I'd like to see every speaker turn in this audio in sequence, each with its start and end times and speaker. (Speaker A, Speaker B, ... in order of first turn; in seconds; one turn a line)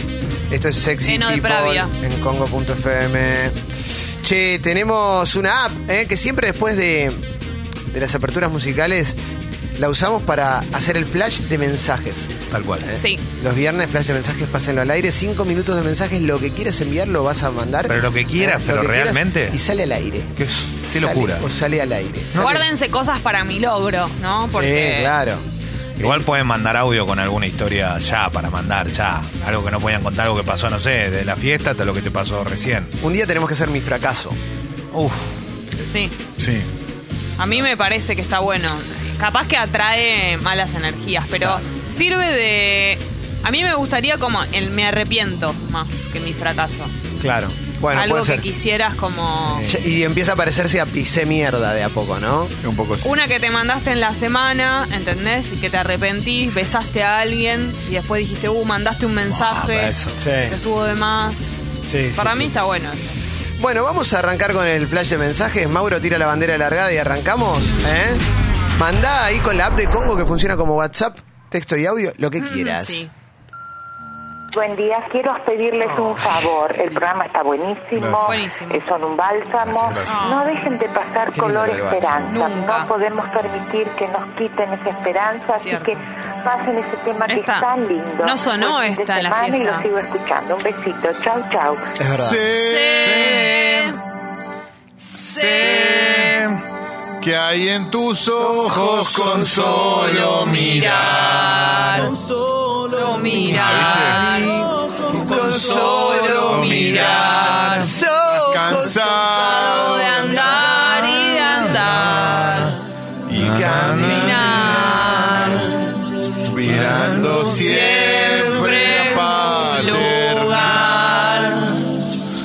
Speaker A: 0.5-3.5
Speaker B: 1.0-1.9
Speaker A: 4.2-7.2
Speaker A: 7.9-9.2
Speaker A: 9.8-12.3
Speaker C: 12.5-12.9
Speaker A: 12.9-20.3
Speaker B: 13.0-13.2
Speaker C: 17.9-19.6
Speaker C: 20.4-21.4
Speaker A: 20.9-22.7
Speaker B: 22.3-25.1
Speaker A: 24.5-25.4
Speaker C: 26.0-32.9
Speaker A: 26.0-26.2
Speaker A: 33.0-34.4
Speaker C: 34.9-35.2
Speaker B: 35.9-36.1
Speaker D: 36.4-36.7
Speaker B: 37.4-46.9
Speaker A: 47.2-48.4
Speaker B: 47.9-49.7
Speaker A: 49.5-52.5
Speaker D: 52.6-53.1
Speaker B: 53.0-59.9
Speaker C: 59.3-60.2
Speaker A: 60.2-60.6
Speaker B: 60.5-61.5
Speaker A: 61.9-62.5
Speaker B: 62.1-63.1
Speaker A: 63.6-68.2
Speaker A: 68.8-73.1
Speaker B: 72.4-73.1
Speaker E: 74.5-91.8
Speaker A: 75.8-76.4
Speaker D: 78.0-78.3
Speaker B: 78.2-78.8
Speaker D: 79.6-80.2
Speaker B: 80.1-80.4
Speaker A: 81.3-82.2
Speaker B: 82.2-82.9
Speaker B: 85.6-85.9
Speaker B: 87.3-87.7
Speaker B: 88.2-89.8
Speaker A: 92.0-92.4
Speaker D: 92.2-93.6
Speaker B: 92.5-94.0
Speaker B: 95.0-96.4
Speaker C: 95.4-96.3
Speaker D: 95.6-96.3
Speaker D: 97.2-102.1
Speaker A: 98.4-100.5
Speaker B: 100.5-102.1
Speaker B: 102.9-104.7
Speaker D: 103.4-104.4
Speaker A: 105.1-109.2
Speaker B: 105.2-107.9
Speaker D: 106.3-107.8
Speaker D: 108.4-110.2
Speaker B: 109.2-112.8
Speaker D: 113.3-114.9
Speaker A: 113.4-115.7
Speaker B: 113.9-115.7
Speaker D: 116.4-121.0
Speaker B: 117.4-121.8